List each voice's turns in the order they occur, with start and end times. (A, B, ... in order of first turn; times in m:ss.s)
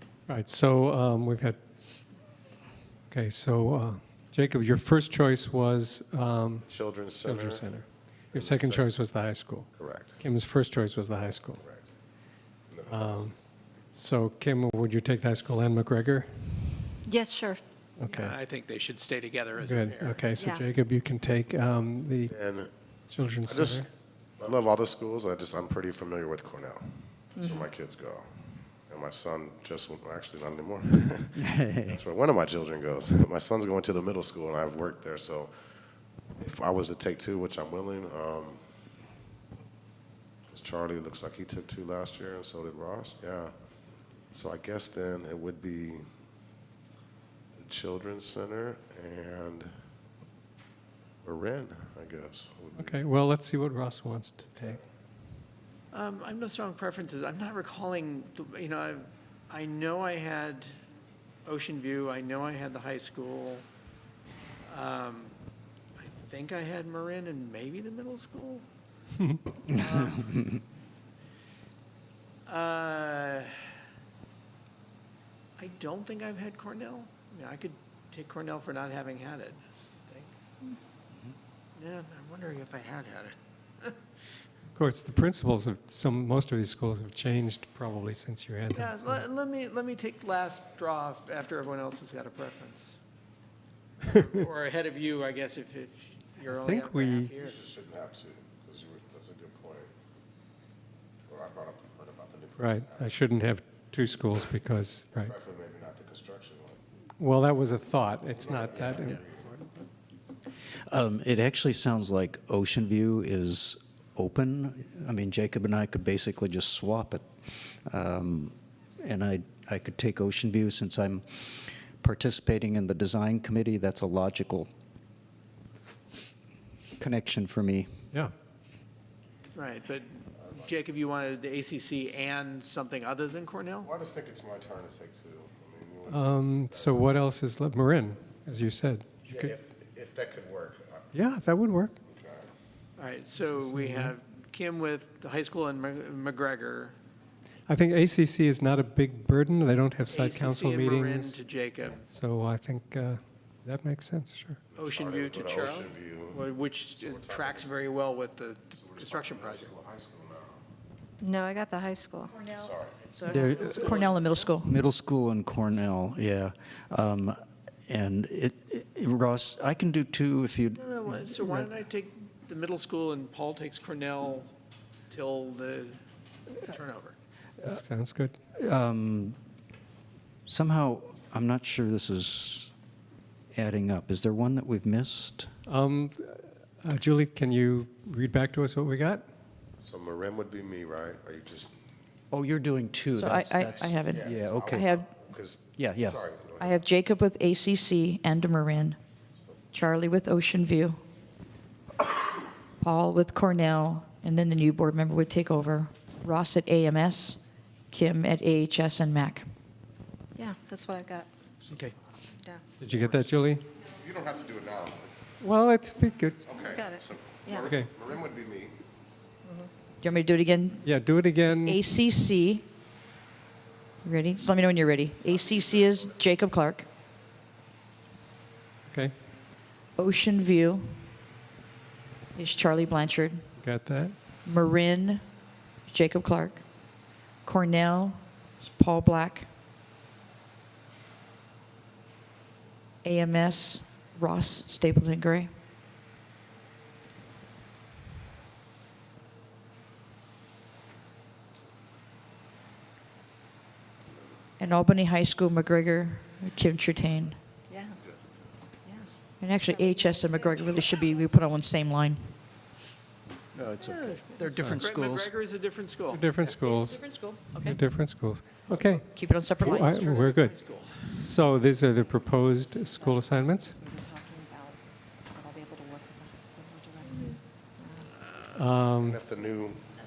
0:00.3-0:01.6 A
0:03.1-0:11.6 A
0:06.6-0:07.8 B
0:08.3-0:08.9 B
0:09.7-0:10.2 B
0:11.6-0:11.9 B
0:12.7-0:13.3 B
0:12.9-0:13.4 A
0:13.9-0:16.9 A
0:17.1-0:17.6 C
0:18.0-0:18.4 A
0:18.1-0:20.3 D
0:19.6-0:22.4 A
0:20.4-0:20.6 C
0:22.3-0:22.7 B
0:23.1-0:23.9 A
0:23.4-0:23.9 B
0:24.4-0:35.5 B
0:27.4-0:27.6 C
0:31.4-0:32.0 E
0:36.4-0:38.7 B
0:40.5-0:43.5 B
0:44.3-0:46.0 B
0:47.5-0:49.7 B
0:51.2-0:53.0 B
0:52.8-0:54.8 A
0:55.9-1:00.7 D
1:01.4-1:03.6 D
1:04.7-1:05.3 D
1:06.0-1:08.6 D
1:09.7-1:10.3 D
1:09.8-1:10.6 E
1:12.5-1:13.7 D
1:15.6-1:20.3 D
1:21.8-1:24.0 D
1:24.8-1:29.2 A
1:28.7-1:33.0 D
1:34.0-1:37.6 D
1:36.4-1:37.3 A
1:37.4-1:39.9 B
1:41.3-1:43.2 B
1:42.6-1:45.3 A
1:45.1-1:46.8 B
1:47.2-1:49.6 A
1:48.3-1:49.6 B
1:50.9-1:57.2 E
1:57.9-2:04.7 E
2:07.0-2:07.9 E
2:09.5-2:13.9 D
2:13.8-2:17.0 B
2:16.1-2:19.5 A
2:19.2-2:21.1 B
2:21.1-2:22.0 A
2:22.0-2:22.5 B
2:23.0-2:27.0 D
2:23.4-2:24.1 A
2:27.7-2:31.4 A
2:30.1-2:32.1 D
2:32.1-2:34.6 A
2:34.7-2:37.8 B
2:34.8-2:39.7 D
2:38.8-2:40.6 B
2:41.2-2:42.4 C
2:42.3-2:44.8 F
2:42.5-2:43.0 B
2:43.2-2:44.1 E
2:43.6-2:44.5 D
2:44.6-2:50.8 E
2:50.8-2:54.5 D
2:55.1-2:56.0 D
2:56.5-2:57.2 D
2:57.6-2:58.4 A
2:58.5-2:59.4 E
3:00.5-3:02.7 E
3:03.5-3:05.5 E
3:05.7-3:09.2 A
3:09.8-3:11.8 B
3:12.3-3:14.9 E
3:13.1-3:15.1 F
3:14.1-3:16.8 B
3:15.8-3:16.2 E
3:16.6-3:19.0 F
3:19.7-3:21.0 F
3:22.8-3:27.4 F
3:27.9-3:29.5 F
3:30.4-3:31.3 C
3:31.7-3:32.0 E
3:32.8-3:33.6 A
3:33.8-3:35.2 B
3:35.4-3:36.5 A
3:36.4-3:38.8 B
3:36.6-3:37.7 C
3:37.6-3:37.9 A
3:40.0-3:42.6 F
3:40.8-3:41.8 A
3:44.0-3:46.9 F
3:48.9-3:49.1 A
3:50.0-3:51.0 F
3:52.4-3:53.4 F
3:53.6-3:54.2 A
3:54.4-3:55.2 F
3:55.9-3:56.6 F
3:57.4-3:59.5 F
4:03.0-4:05.5 F
4:14.6-4:17.4 F
4:17.7-4:18.0 C
4:19.4-4:22.3 F
4:19.7-4:21.3 C
4:23.6-4:25.3 E
4:23.9-4:24.2 C
4:24.4-4:26.3 D
4:26.1-4:29.1 A
4:26.4-4:27.8 F
4:29.1-4:30.0 F
4:29.4-4:31.1 D
4:29.7-4:33.8 A
4:31.8-4:37.2 C
4:37.0-4:37.4 D
4:37.8-4:38.1 C
4:38.5-4:39.2 A
4:39.0-4:39.9 B